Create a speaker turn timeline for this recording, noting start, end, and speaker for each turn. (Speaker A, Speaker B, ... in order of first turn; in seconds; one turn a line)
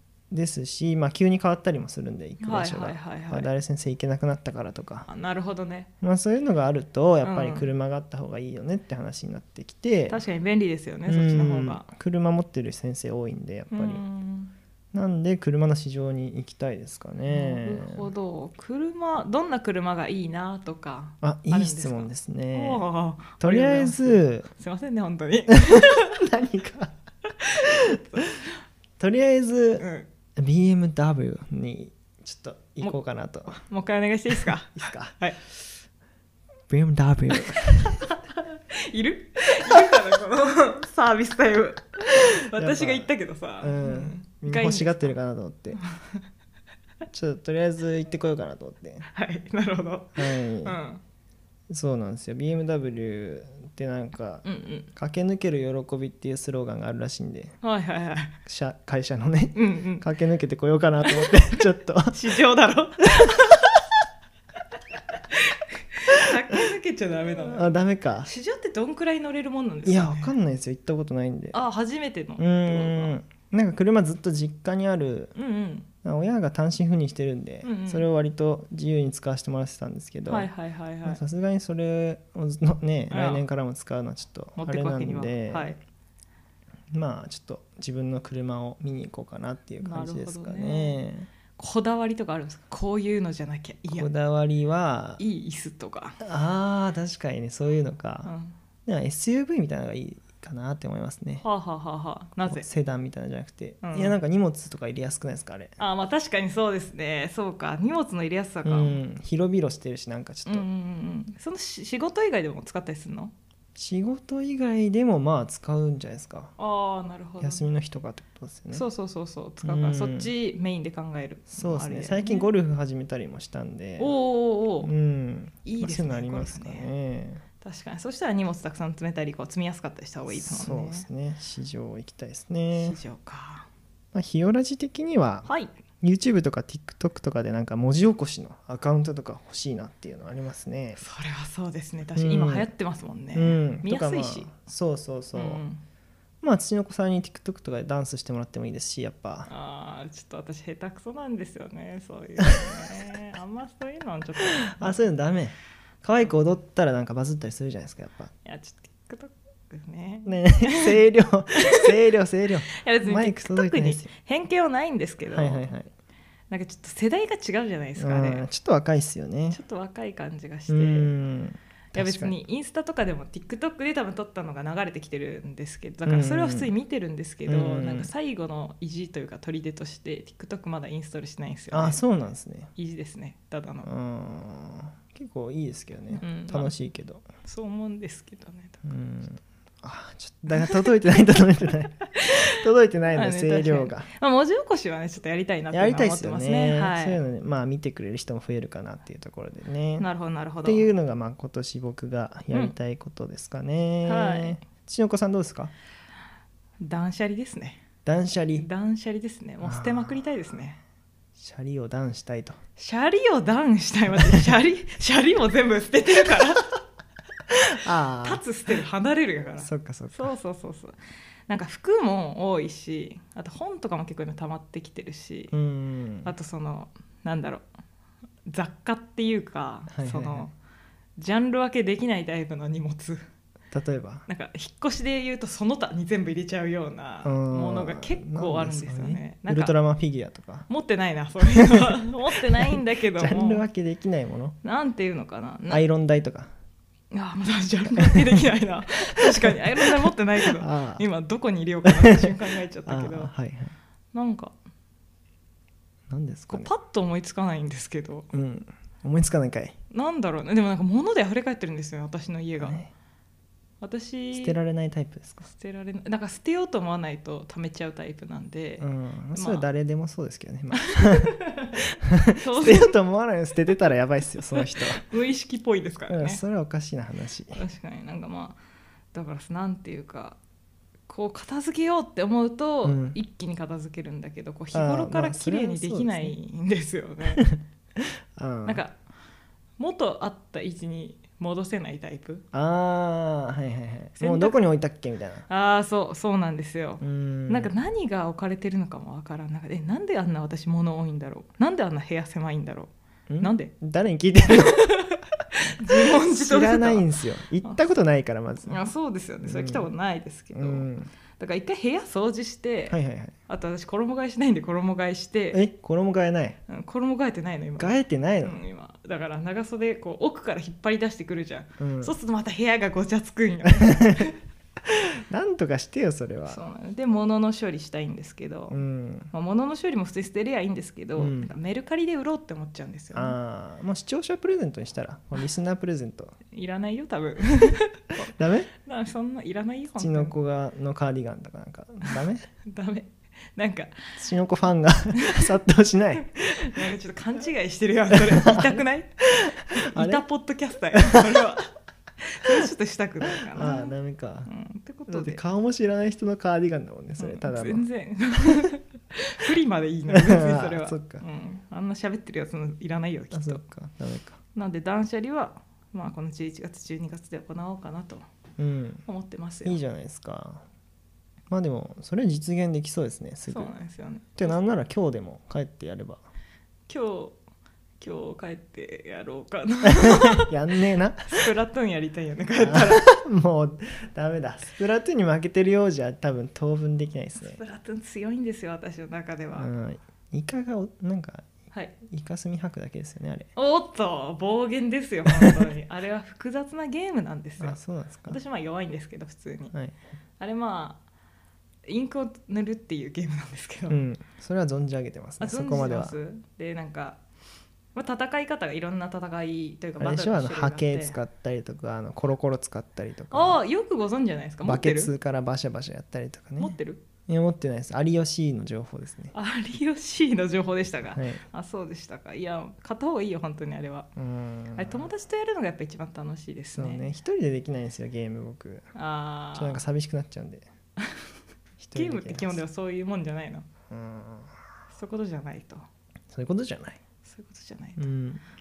Speaker A: 0.3-5.1
Speaker B: 2.4-3.5
Speaker B: 5.1-5.9
Speaker A: 6.0-10.2
Speaker B: 7.2-7.7
Speaker B: 10.1-11.9
Speaker A: 11.1-14.0
Speaker B: 13.7-14.5
Speaker A: 14.9-18.1
Speaker B: 17.3-26.2
Speaker A: 21.2-22.8
Speaker A: 23.4-24.5
Speaker A: 25.5-26.9
Speaker B: 27.4-28.3
Speaker A: 27.6-28.3
Speaker A: 29.0-29.9
Speaker B: 29.8-30.1
Speaker A: 30.4-33.6
Speaker B: 32.8-35.4
Speaker A: 34.3-35.2
Speaker A: 36.7-38.1
Speaker B: 37.3-45.2
Speaker A: 42.5-45.8
Speaker A: 47.1-49.1
Speaker B: 49.1-51.0
Speaker A: 50.2-50.8
Speaker A: 51.7-57.5
Speaker B: 54.4-54.9
Speaker B: 57.6-58.4
Speaker A: 58.5-62.2
Speaker B: 59.5-60.1
Speaker B: 61.0-61.3
Speaker B: 62.1-63.8
Speaker B: 65.3-70.3
Speaker A: 67.4-68.3
Speaker A: 69.9-71.6
Speaker B: 71.5-73.1
Speaker A: 72.4-75.3
Speaker B: 75.3-75.9
Speaker A: 76.0-80.5
Speaker B: 77.6-78.1
Speaker B: 80.3-81.2
Speaker A: 81.1-85.8
Speaker B: 83.1-83.5
Speaker B: 84.6-85.8
Speaker A: 86.9-91.3
Speaker B: 89.8-91.0
Speaker B: 91.5-94.1
Speaker A: 93.9-95.2
Speaker B: 95.2-96.2
Speaker A: 96.2-98.3
Speaker B: 98.2-98.5
Speaker A: 98.9-101.5
Speaker B: 101.4-102.7
Speaker A: 102.4-105.8
Speaker B: 103.8-104.2
Speaker B: 105.8-109.0
Speaker A: 108.7-110.7
Speaker B: 110.5-113.3
Speaker A: 113.8-116.5
Speaker B: 116.6-117.7
Speaker A: 117.4-118.8
Speaker B: 118.7-122.5
Speaker A: 119.6-120.3
Speaker A: 121.5-124.2
Speaker B: 124.0-124.9
Speaker A: 124.8-127.4
Speaker B: 125.7-126.9
Speaker B: 127.6-131.1
Speaker A: 130.3-133.0
Speaker B: 132.8-133.7
Speaker A: 134.1-135.5
Speaker B: 135.5-135.7
Speaker A: 136.0-141.0
Speaker B: 141.0-144.5
Speaker A: 142.2-142.7
Speaker A: 143.3-145.6
Speaker B: 145.3-145.8
Speaker A: 146.4-149.5
Speaker B: 149.5-155.0
Speaker A: 154.6-158.3
Speaker B: 158.4-161.0
Speaker A: 160.3-164.1
Speaker B: 161.6-161.9
Speaker B: 162.7-165.7
Speaker A: 165.3-165.9
Speaker B: 166.5-168.5
Speaker A: 168.0-169.6
Speaker B: 169.5-171.1
Speaker A: 170.7-172.4
Speaker B: 171.9-182.0
Speaker A: 176.1-176.7
Speaker A: 177.5-178.1
Speaker A: 181.7-182.7
Speaker B: 182.8-183.9
Speaker A: 183.8-187.2
Speaker B: 186.1-186.7
Speaker B: 187.4-188.8
Speaker A: 188.8-194.1
Speaker B: 190.5-190.8
Speaker B: 192.2-192.5
Speaker B: 193.1-197.2
Speaker A: 195.7-200.1
Speaker B: 200.0-200.9
Speaker A: 200.6-205.7
Speaker B: 204.1-204.6
Speaker B: 206.8-207.8
Speaker A: 208.1-208.7
Speaker B: 208.5-210.8
Speaker A: 209.6-210.3
Speaker A: 211.4-212.6
Speaker B: 212.8-216.7
Speaker A: 217.8-218.4
Speaker B: 218.2-221.0
Speaker A: 219.6-220.3
Speaker B: 221.5-225.5
Speaker A: 225.5-226.3
Speaker B: 226.2-227.7
Speaker B: 228.5-230.5
Speaker A: 229.9-230.5
Speaker B: 231.2-233.2
Speaker A: 233.7-234.3
Speaker B: 234.3-239.8
Speaker A: 237.2-240.7
Speaker B: 240.7-243.6
Speaker A: 241.4-241.9
Speaker A: 242.6-244.6
Speaker B: 244.6-245.8
Speaker A: 245.7-246.5
Speaker B: 247.1-253.3
Speaker A: 249.5-251.1
Speaker A: 251.8-253.7
Speaker B: 254.1-254.5
Speaker A: 256.1-256.7
Speaker B: 256.5-258.3
Speaker A: 258.3-259.8
Speaker B: 259.9-262.8
Speaker A: 262.6-262.9
Speaker B: 263.8-264.6
Speaker A: 264.3-265.5
Speaker B: 265.4-269.7
Speaker A: 268.8-271.4
Speaker B: 270.9-271.8
Speaker A: 272.1-275.1
Speaker B: 272.4-273.0
Speaker B: 274.6-276.4
Speaker A: 276.1-277.6
Speaker B: 277.5-278.6
Speaker B: 279.1-280.4
Speaker B: 281.1-287.4
Speaker A: 282.8-283.2
Speaker A: 284.7-286.4
Speaker A: 287.4-288.8
Speaker B: 288.6-289.0
Speaker B: 289.8-292.4
Speaker A: 292.5-295.5
Speaker B: 294.2-294.6
Speaker B: 295.5-303.7
Speaker A: 297.0-297.7
Speaker A: 303.3-304.9
Speaker B: 304.5-305.2
Speaker B: 305.8-307.1
Speaker A: 305.9-308.9
Speaker B: 308.6-313.0
Speaker A: 309.4-309.9
Speaker A: 310.5-311.1
Speaker A: 312.9-313.4
Speaker B: 313.5-315.6
Speaker A: 315.5-316.6
Speaker B: 316.7-324.4
Speaker A: 317.8-318.6
Speaker A: 321.8-322.1
Speaker A: 323.8-324.3
Speaker A: 324.9-326.6
Speaker B: 326.5-328.8
Speaker A: 328.7-329.3
Speaker B: 329.3-333.4
Speaker A: 331.2-331.5
Speaker A: 333.1-336.4
Speaker B: 336.5-338.3
Speaker A: 338.2-338.7
Speaker B: 338.9-340.3
Speaker A: 340.0-342.5
Speaker B: 342.7-343.9
Speaker A: 344.2-346.9
Speaker B: 345.2-345.5
Speaker B: 346.3-351.7
Speaker A: 348.1-348.8
Speaker A: 349.4-350.2
Speaker A: 350.9-351.5
Speaker B: 352.2-355.4
Speaker A: 353.4-354.5
Speaker A: 355.1-357.9
Speaker B: 357.2-363.6
Speaker A: 360.1-361.2
Speaker A: 363.3-364.4
Speaker B: 364.6-368.2
Speaker A: 368.6-369.1
Speaker B: 369.1-369.8
Speaker A: 369.6-370.6
Speaker A: 371.5-373.7
Speaker B: 373.5-374.6
Speaker A: 374.4-376.2
Speaker B: 376.9-377.4
Speaker B: 378.0-380.6
Speaker A: 379.9-381.5
Speaker B: 381.3-383.1
Speaker A: 382.6-387.6
Speaker B: 387.4-389.7
Speaker A: 389.6-391.5
Speaker A: 392.0-393.5
Speaker B: 393.6-399.7
Speaker A: 395.3-395.6
Speaker A: 397.6-398.4
Speaker B: 400.4-401.0
Speaker B: 401.9-404.0
Speaker A: 403.9-406.2
Speaker B: 405.4-407.2
Speaker B: 407.9-411.2
Speaker A: 410.0-413.6
Speaker B: 413.3-415.1
Speaker A: 414.6-419.3
Speaker B: 416.6-417.0
Speaker B: 419.3-424.1
Speaker A: 421.1-421.4
Speaker A: 424.2-425.1
Speaker B: 424.8-427.1
Speaker A: 426.8-428.9
Speaker B: 428.9-429.8
Speaker A: 429.6-430.7
Speaker B: 431.0-431.3
Speaker A: 431.8-432.6
Speaker B: 431.9-433.7
Speaker A: 433.9-434.5
Speaker B: 434.9-435.9
Speaker A: 436.3-437.0
Speaker B: 437.2-438.0
Speaker A: 438.0-438.4